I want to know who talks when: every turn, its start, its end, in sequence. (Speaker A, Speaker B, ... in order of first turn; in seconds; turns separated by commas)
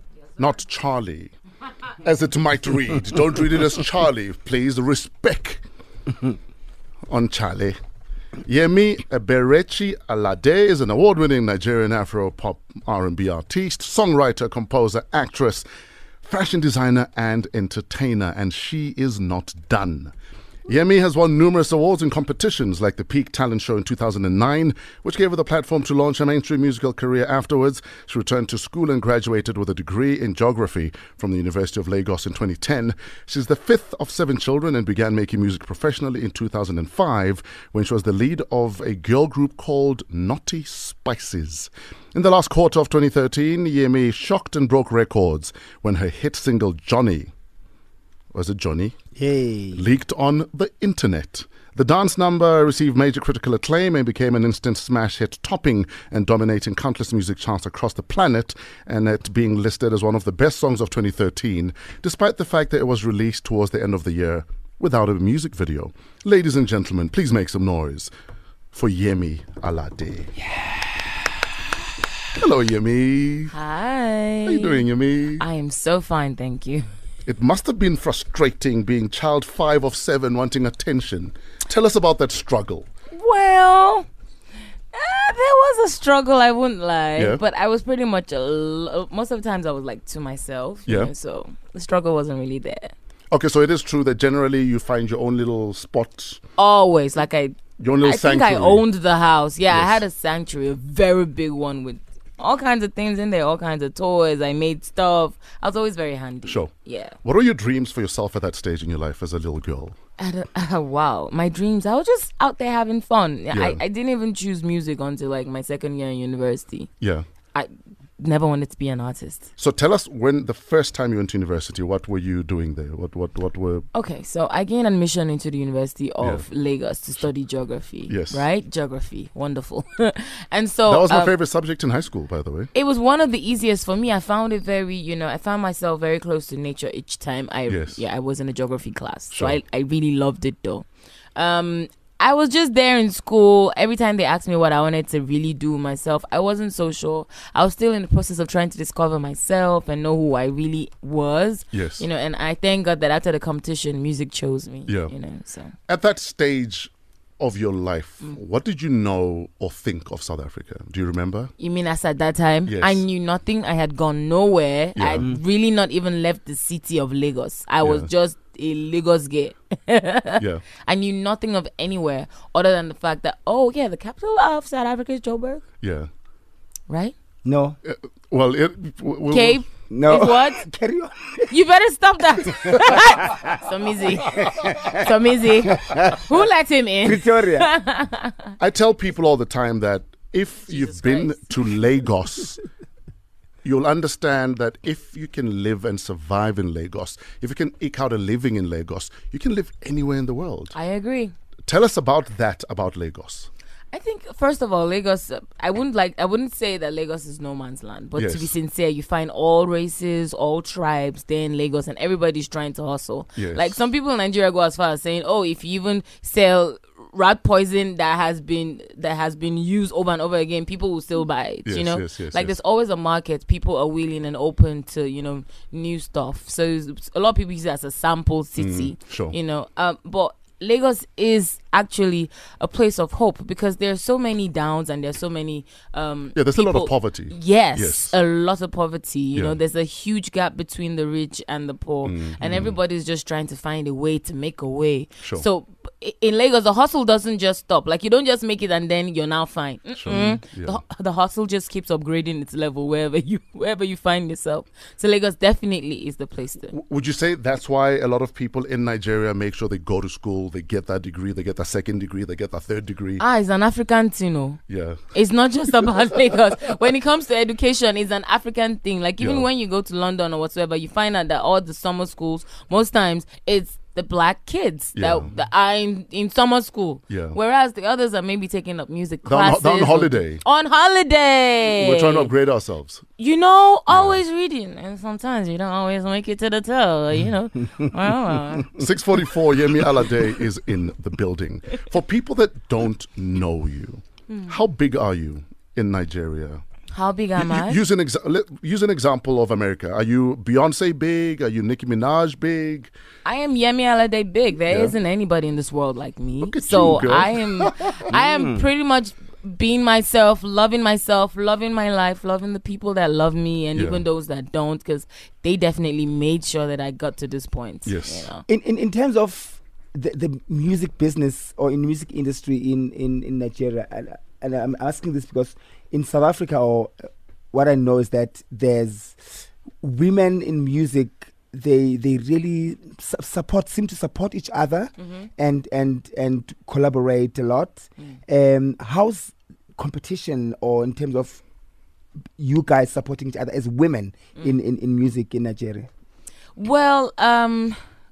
Speaker A: 0.4-1.3, Speaker A: 2.0-5.6, Speaker A: 7.1-7.8, Speaker A: 8.4-15.7, Speaker A: 16.2-20.1, Speaker A: 20.7-47.3, Speaker A: 48.3-49.0, Speaker B: 49.1-49.8, Speaker A: 49.7-68.1, Speaker A: 68.7-70.3, Speaker A: 72.3-73.5, Speaker C: 73.5-74.9, Speaker A: 74.4-75.4, Speaker C: 75.4-76.8, Speaker A: 77.2-82.9, Speaker C: 83.1-84.1, Speaker C: 84.9-92.9, Speaker A: 87.2-87.4, Speaker A: 93.3-96.4, Speaker C: 96.6-107.2, Speaker A: 97.8-98.8, Speaker A: 99.7-100.0, Speaker A: 107.2-109.9, Speaker C: 110.2-116.9, Speaker A: 113.5-113.8, Speaker C: 117.5-119.5, Speaker A: 119.6-123.8, Speaker C: 123.9-131.3, Speaker A: 126.2-126.5, Speaker A: 128.1-128.4, Speaker A: 130.9-132.7, Speaker C: 132.7-140.8, Speaker A: 137.7-138.0, Speaker A: 139.3-139.6, Speaker C: 141.3-155.7, Speaker A: 151.7-152.1, Speaker A: 154.9-155.1, Speaker A: 155.9-161.5, Speaker C: 161.6-175.6, Speaker A: 162.7-163.0, Speaker A: 164.9-165.3, Speaker A: 167.8-168.1, Speaker A: 170.4-170.6, Speaker A: 175.8-176.1, Speaker C: 176.9-177.1, Speaker B: 177.4-177.8, Speaker A: 177.8-179.6, Speaker C: 179.3-180.7, Speaker B: 179.9-181.5, Speaker C: 181.5-188.5, Speaker B: 182.6-183.6, Speaker B: 184.3-185.0, Speaker B: 185.7-186.4, Speaker B: 187.0-187.7, Speaker A: 188.6-192.6, Speaker C: 190.7-191.5, Speaker A: 193.6-200.7, Speaker C: 200.7-201.3, Speaker A: 201.7-203.5, Speaker C: 203.9-256.7, Speaker A: 208.1-208.6, Speaker A: 213.3-213.8, Speaker A: 221.7-222.5, Speaker A: 228.6-229.3, Speaker A: 236.3-238.2, Speaker A: 242.0-242.8, Speaker A: 250.0-250.8, Speaker A: 256.7-263.2, Speaker C: 263.2-264.6, Speaker A: 264.7-265.1, Speaker C: 265.1-282.3, Speaker A: 269.2-269.5, Speaker A: 274.9-275.3, Speaker A: 277.1-277.4, Speaker A: 279.2-280.4, Speaker A: 281.7-283.0, Speaker C: 283.2-288.8, Speaker A: 283.9-284.2, Speaker A: 288.7-296.6, Speaker C: 294.3-294.6, Speaker C: 296.9-297.8, Speaker A: 297.4-302.9, Speaker C: 303.2-318.4, Speaker A: 304.7-304.9, Speaker A: 306.4-308.1, Speaker B: 308.1-308.6, Speaker A: 313.8-314.0, Speaker A: 317.8-318.3, Speaker B: 318.5-341.4, Speaker C: 335.0-335.3, Speaker B: 342.4-345.9, Speaker C: 346.6-347.8